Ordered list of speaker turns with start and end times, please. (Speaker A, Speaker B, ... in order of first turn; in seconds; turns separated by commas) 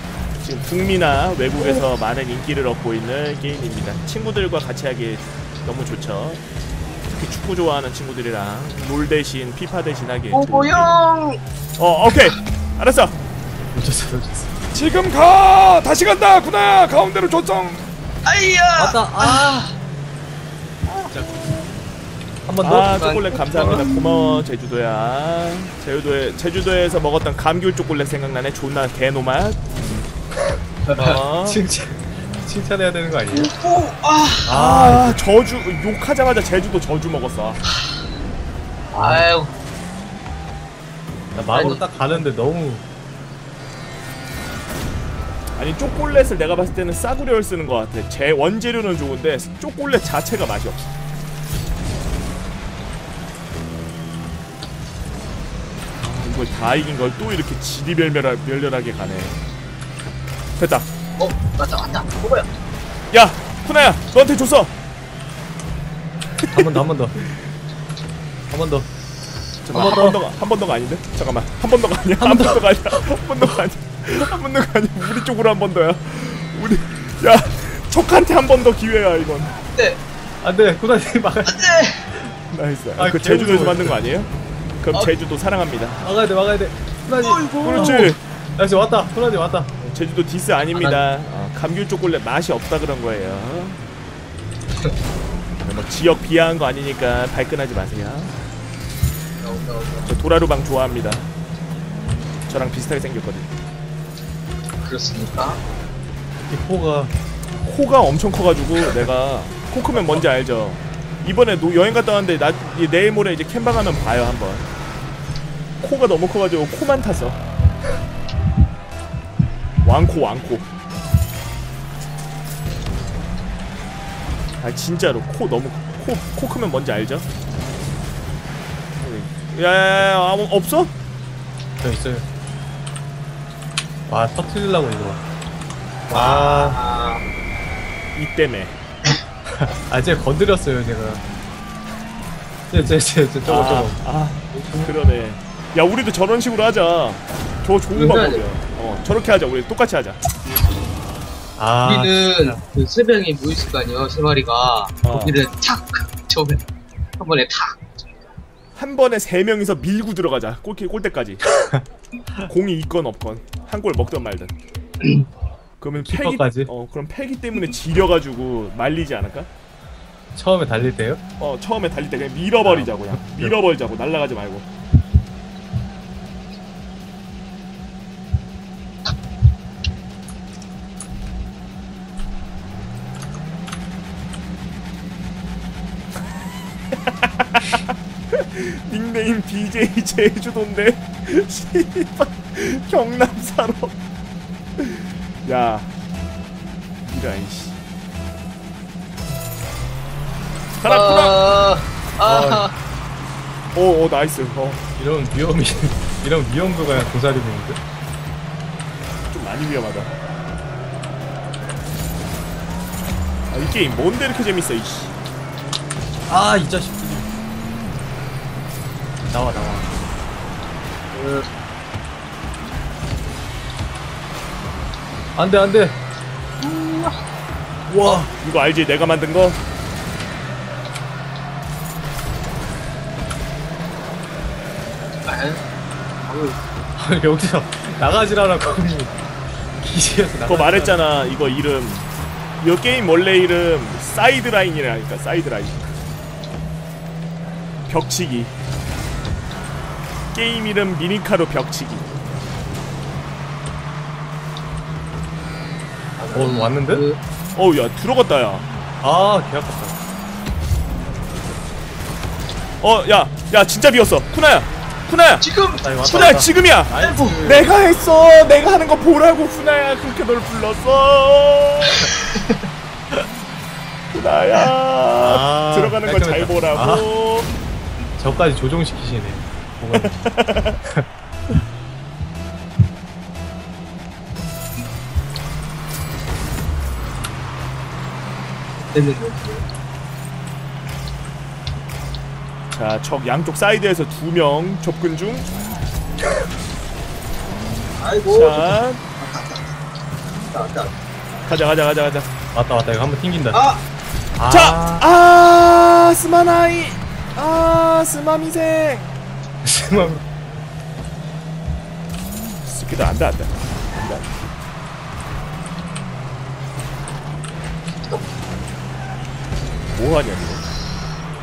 Speaker A: 0.4-6.4, Speaker A: 7.1-11.0, Speaker B: 10.3-11.4, Speaker A: 11.8-13.2, Speaker C: 13.7-14.5, Speaker A: 14.7-17.9, Speaker B: 18.2-19.5, Speaker C: 18.8-19.8, Speaker C: 21.1-21.6, Speaker C: 22.4-23.2, Speaker A: 22.6-29.7, Speaker B: 23.2-24.4, Speaker C: 29.8-30.1, Speaker B: 30.9-31.2, Speaker A: 31.0-31.6, Speaker C: 31.5-33.5, Speaker B: 33.3-34.6, Speaker C: 34.5-35.2, Speaker A: 34.5-37.6, Speaker C: 38.9-39.3, Speaker B: 39.0-39.5, Speaker C: 41.3-42.8, Speaker B: 41.5-41.9, Speaker A: 45.6-50.9, Speaker A: 56.0-59.4, Speaker A: 60.6-60.9, Speaker B: 61.2-62.5, Speaker A: 63.1-64.7, Speaker A: 66.4-66.7, Speaker C: 66.5-67.2, Speaker C: 68.5-68.9, Speaker A: 69.7-79.6, Speaker C: 69.7-70.2, Speaker C: 72.2-73.5, Speaker B: 79.7-80.0, Speaker C: 80.4-82.3, Speaker B: 81.5-82.1, Speaker A: 82.5-84.3, Speaker C: 83.0-84.0, Speaker A: 84.8-86.0, Speaker C: 86.0-89.7, Speaker B: 87.2-88.1, Speaker A: 87.6-88.2, Speaker A: 89.8-93.8, Speaker B: 90.7-91.0, Speaker A: 95.6-98.3, Speaker B: 99.4-100.1, Speaker A: 100.1-101.3, Speaker A: 102.5-103.5, Speaker B: 104.8-105.6, Speaker C: 106.5-107.1, Speaker A: 107.7-114.7, Speaker C: 109.9-110.2, Speaker A: 115.8-117.4, Speaker A: 119.8-120.7, Speaker A: 124.6-127.3, Speaker A: 129.0-130.9, Speaker C: 131.8-132.3, Speaker C: 134.1-135.2, Speaker C: 136.1-136.8, Speaker B: 136.1-137.2, Speaker A: 138.2-138.8, Speaker C: 139.5-141.2, Speaker C: 142.7-144.0, Speaker A: 143.4-150.2, Speaker C: 144.5-145.0, Speaker B: 147.9-148.5, Speaker C: 151.6-152.6, Speaker B: 151.8-156.7, Speaker A: 155.0-155.4, Speaker B: 157.2-157.8, Speaker A: 158.8-161.4, Speaker A: 162.5-164.5, Speaker B: 165.0-165.3, Speaker A: 165.8-169.5, Speaker C: 166.0-166.7, Speaker C: 170.3-171.2, Speaker A: 171.4-174.7, Speaker C: 172.6-173.5, Speaker A: 187.1-194.0, Speaker A: 194.8-195.9, Speaker A: 197.1-197.8, Speaker A: 200.8-201.5, Speaker B: 200.8-202.7, Speaker C: 202.2-202.7, Speaker A: 203.7-204.8, Speaker C: 205.0-207.8, Speaker A: 209.3-210.2, Speaker A: 213.5-215.1, Speaker C: 216.3-217.3, Speaker C: 219.3-219.9, Speaker B: 221.1-221.5, Speaker C: 225.4-226.0, Speaker B: 226.6-227.2, Speaker C: 227.9-228.3, Speaker A: 228.0-229.6, Speaker B: 235.2-235.7, Speaker B: 236.2-236.6, Speaker C: 237.0-239.2, Speaker C: 239.8-241.0, Speaker A: 240.4-242.1, Speaker A: 242.6-246.0, Speaker A: 247.9-248.5, Speaker A: 250.3-252.3, Speaker B: 256.2-257.2, Speaker C: 256.3-257.1, Speaker A: 257.6-258.7, Speaker C: 259.0-259.9, Speaker A: 262.8-265.5, Speaker B: 265.4-266.3, Speaker C: 265.8-267.6, Speaker A: 266.0-272.1, Speaker B: 267.0-267.6, Speaker A: 274.1-277.5, Speaker C: 275.2-277.1, Speaker C: 278.2-280.3, Speaker A: 279.9-280.8, Speaker B: 288.9-289.6, Speaker A: 292.7-295.5, Speaker B: 298.0-299.5, Speaker A: 298.3-299.0, Speaker B: 300.5-300.9, Speaker A: 301.5-302.3, Speaker C: 302.5-303.6, Speaker B: 303.5-303.8, Speaker C: 304.4-305.1, Speaker A: 304.5-309.1, Speaker C: 309.6-310.2, Speaker A: 312.6-314.4, Speaker A: 319.9-320.7